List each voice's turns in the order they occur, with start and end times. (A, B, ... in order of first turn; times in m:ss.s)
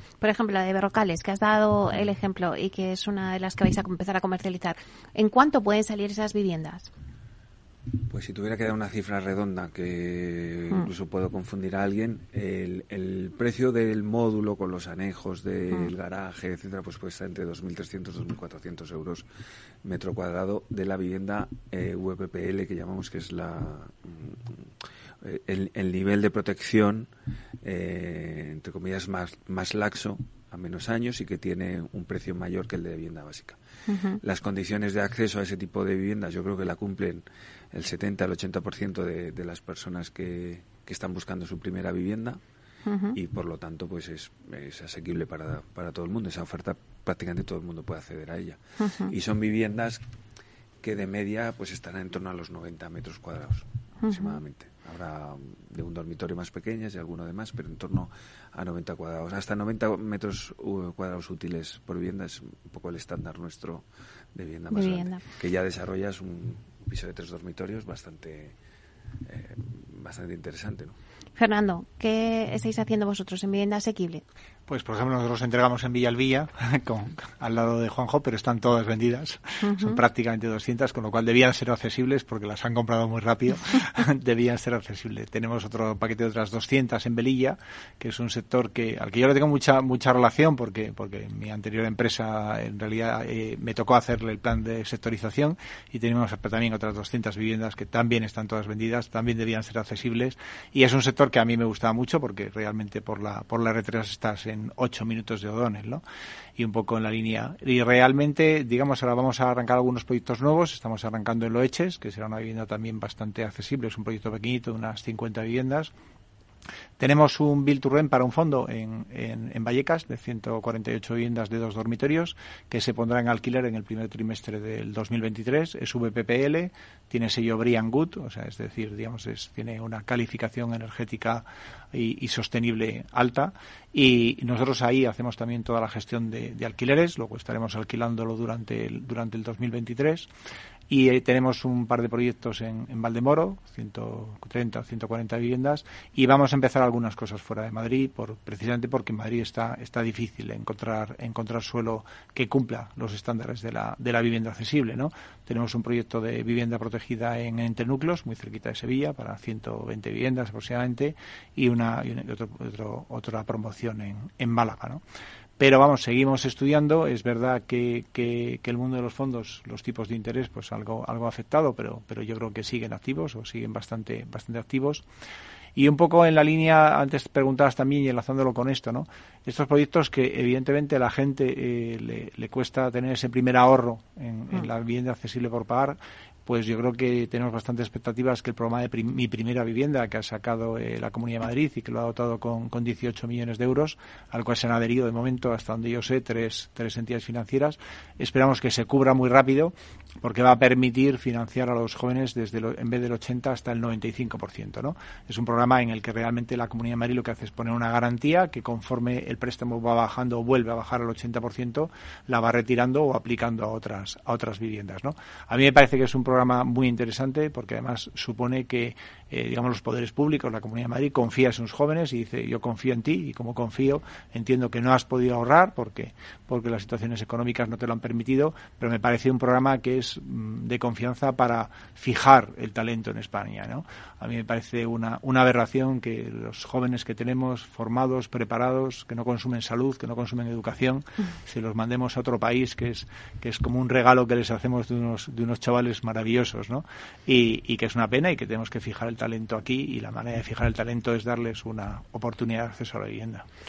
0:00.2-0:06.9 A
0:08.1-0:19.2 B
0:19.8-0:24.6 B
0:25.2-0:27.1 B
0:27.6-0:33.6 B
0:33.9-0:34.2 A
0:34.2-0:42.4 B
0:42.9-0:43.2 A
0:43.1-0:50.0 B
0:48.8-0:49.1 A
0:50.8-1:08.6 B
0:54.0-0:54.4 A
1:04.7-1:05.2 A
1:09.3-1:11.0 B
1:11.4-1:14.2 A
1:14.7-1:46.0 C
1:19.6-1:20.0 A
1:46.6-1:55.9 C
1:57.0-2:20.3 C
2:20.9-2:45.0 C
2:45.6-2:55.0 C
2:55.8-4:13.4 C